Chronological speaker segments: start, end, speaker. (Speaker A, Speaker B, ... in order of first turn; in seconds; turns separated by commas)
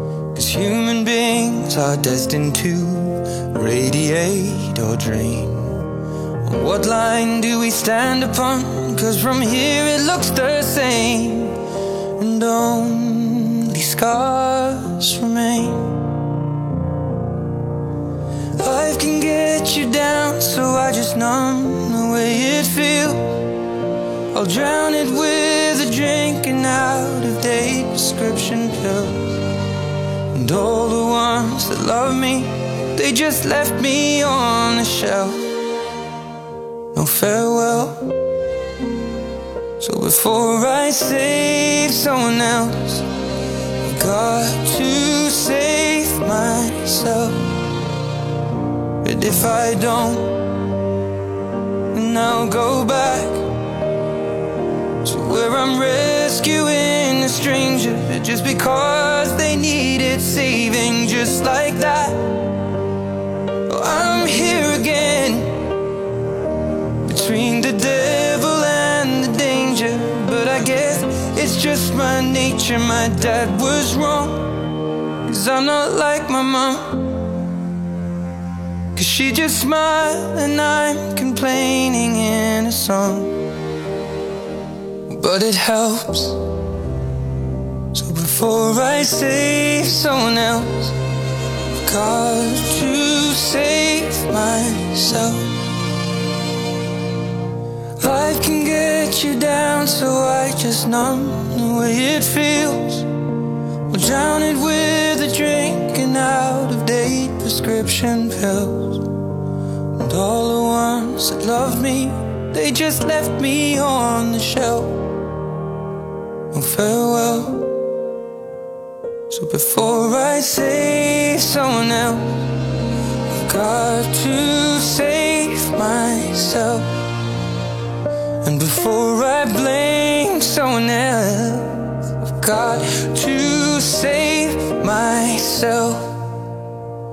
Speaker A: 0.3-5.8, Speaker A: 6.5-11.6, Speaker A: 12.2-15.9, Speaker A: 18.6-23.4, Speaker A: 24.3-29.4, Speaker A: 30.3-35.5, Speaker A: 36.9-38.1, Speaker A: 39.8-43.0, Speaker A: 43.8-47.5, Speaker A: 49.0-50.4, Speaker A: 51.9-53.4, Speaker A: 55.0-62.4, Speaker A: 63.7-65.7, Speaker A: 67.0-74.6, Speaker A: 75.3-77.2, Speaker A: 79.0-83.3, Speaker A: 85.1-86.4, Speaker A: 87.9-91.0, Speaker A: 91.8-95.6, Speaker A: 98.0-103.1, Speaker A: 103.9-109.1, Speaker A: 110.0-115.1, Speaker A: 116.5-117.7, Speaker A: 119.3-122.5, Speaker A: 123.3-127.0, Speaker A: 128.4-136.2